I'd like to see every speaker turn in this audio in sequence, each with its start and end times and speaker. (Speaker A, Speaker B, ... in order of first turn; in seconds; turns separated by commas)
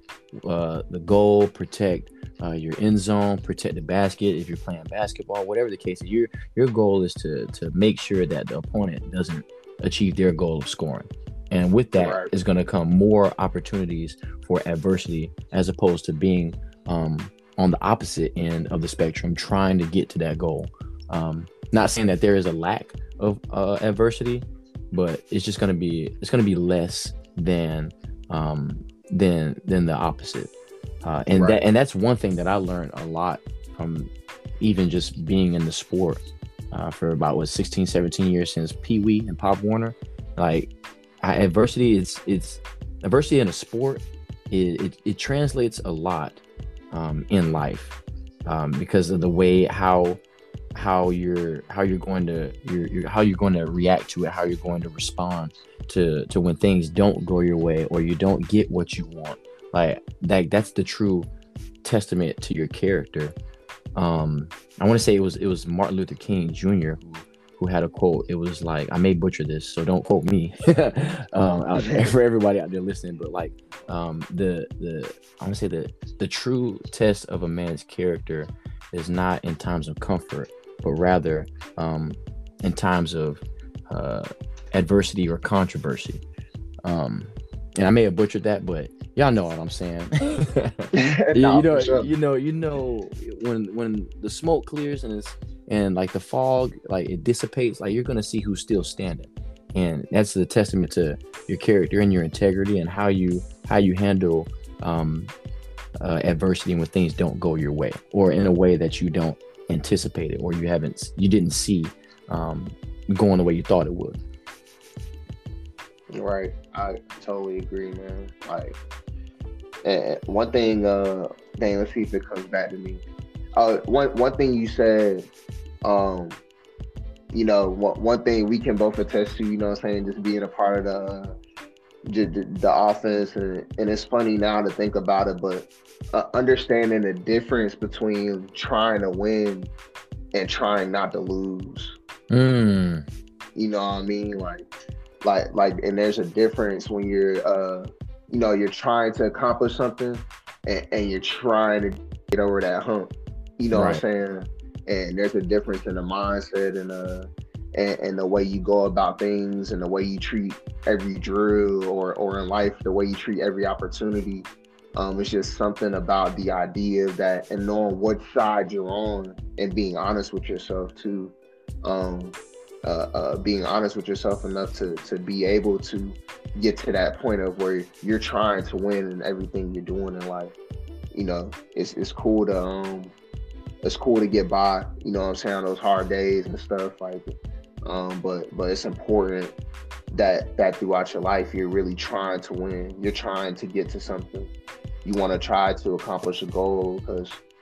Speaker A: 0.3-30.5, Speaker B: 12.0-12.3, Speaker A: 31.0-34.1, Speaker B: 31.3-31.6, Speaker A: 34.6-50.2, Speaker A: 50.7-61.3, Speaker A: 61.8-63.3, Speaker A: 64.0-86.2, Speaker B: 71.8-72.1, Speaker A: 86.8-105.3, Speaker B: 90.9-92.1, Speaker A: 106.0-114.2, Speaker B: 116.1-118.8, Speaker B: 119.8-123.0, Speaker B: 123.5-125.3, Speaker B: 125.8-126.4, Speaker B: 127.3-131.4, Speaker B: 132.0-139.7, Speaker B: 140.3-141.9, Speaker A: 142.3-143.0, Speaker B: 143.5-144.7, Speaker B: 145.2-180.5, Speaker A: 153.7-154.0, Speaker B: 181.1-183.1, Speaker B: 183.8-189.5, Speaker B: 190.1-194.5, Speaker B: 195.0-197.4